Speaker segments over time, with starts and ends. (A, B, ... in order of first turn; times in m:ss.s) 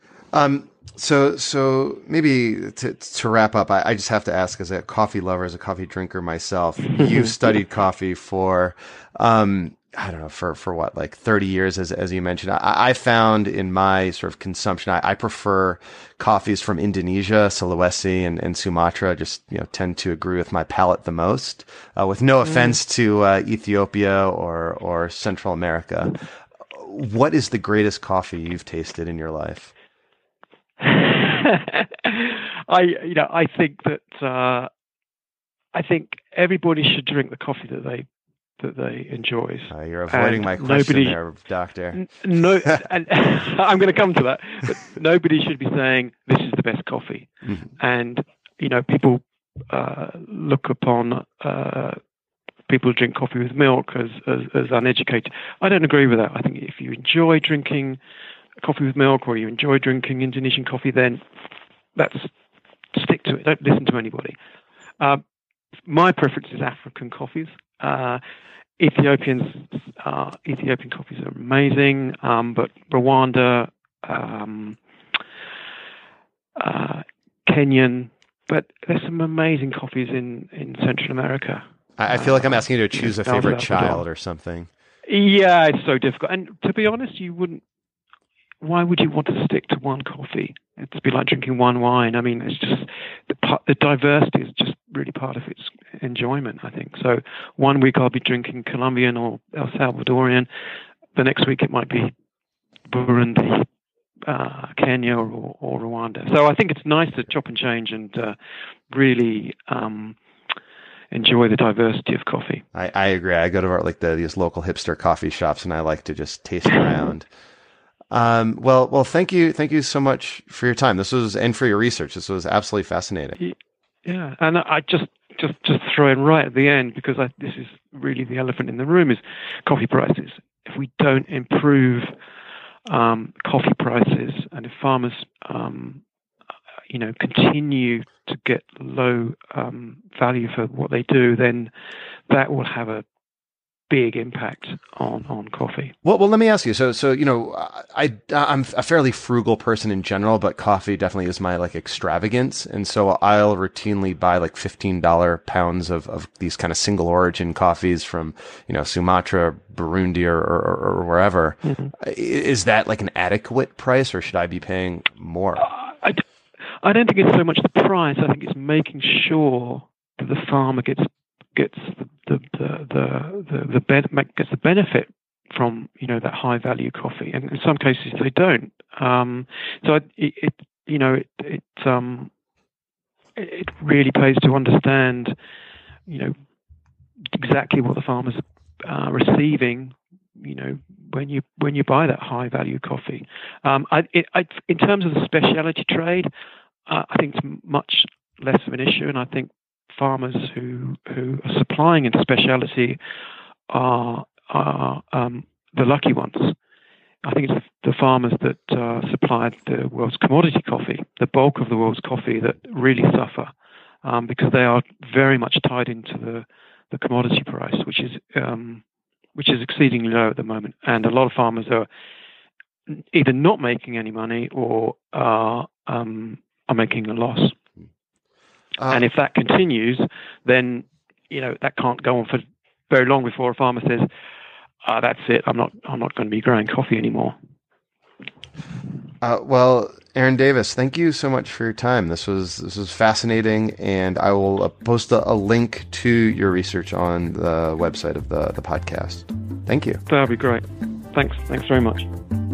0:00.3-0:26.2 A
0:07.0-0:07.3 B
0:26.7-0:29.7 A
0:30.8-0:34.7 B
0:35.7-0:38.1 B
0:38.6-0:41.2 B
0:39.7-0:42.0 A
0:41.9-0:52.0 B
0:52.7-0:58.0 B
0:58.6-1:01.2 B
1:02.0-1:02.3 B
1:02.9-1:04.4 B
1:05.9-1:08.2 B
1:08.8-1:14.8 B
1:16.6-1:24.0 B
1:22.0-1:24.7 A
1:25.1-1:27.6 B
1:28.6-1:40.5 B
1:41.2-1:42.1 B
1:42.9-1:43.7 B
1:44.3-1:48.4 B
1:48.9-1:50.2 B
1:51.1-1:52.6 B
1:52.7-1:57.3 A
1:58.1-2:03.4 A
2:03.4-2:12.2 B
2:12.9-2:16.0 B
2:16.9-2:21.7 B
2:22.3-2:23.1 B
2:23.9-2:26.0 B
2:26.0-2:45.7 A
2:41.7-2:41.9 B
2:45.6-2:46.2 B
2:46.8-3:02.3 B
3:03.4-3:05.4 B
3:06.1-3:06.4 B
3:07.3-3:16.3 B
3:16.9-3:23.0 B
3:23.7-3:26.6 B
3:27.2-3:33.5 B
3:34.0-3:38.8 B
3:39.4-3:41.9 B
3:42.9-3:47.6 B
3:48.8-3:49.0 A
3:48.9-3:54.1 B
3:54.8-3:57.4 B
3:59.2-4:10.0 A
4:10.1-4:12.1 B